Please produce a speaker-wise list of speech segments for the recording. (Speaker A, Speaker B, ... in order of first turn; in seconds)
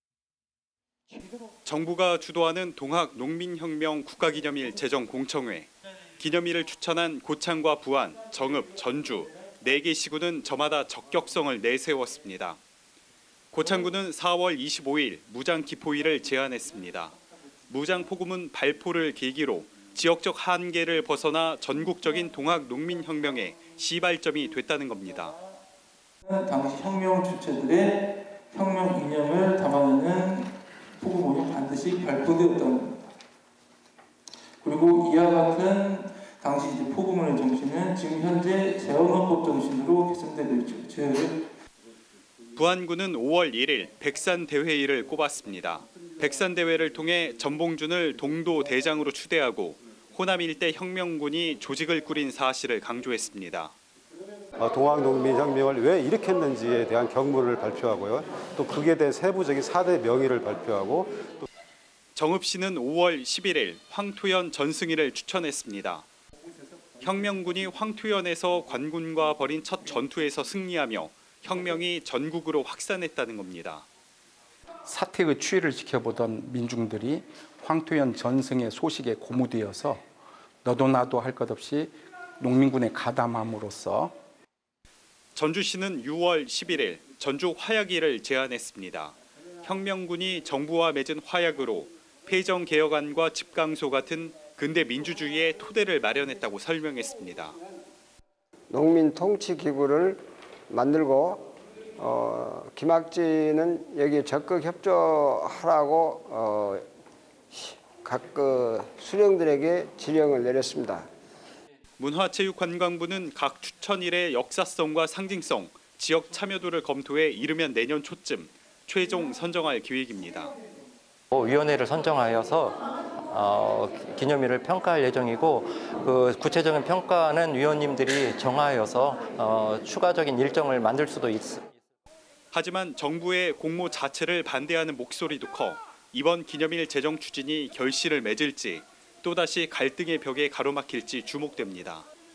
Speaker A: 1.6-12.6, 13.5-17.2, 17.7-25.4, 42.5-53.7, 62.1-66.1, 67.0-73.9, 85.3-97.5, 112.0-120.5, 132.5-142.1
Speaker B: 26.2-33.0, 34.6-41.5
Speaker C: 54.6-61.5
Speaker D: 74.9-80.0, 80.7-84.1
Speaker E: 98.7-106.8, 107.5-111.0
Speaker F: 121.3-131.7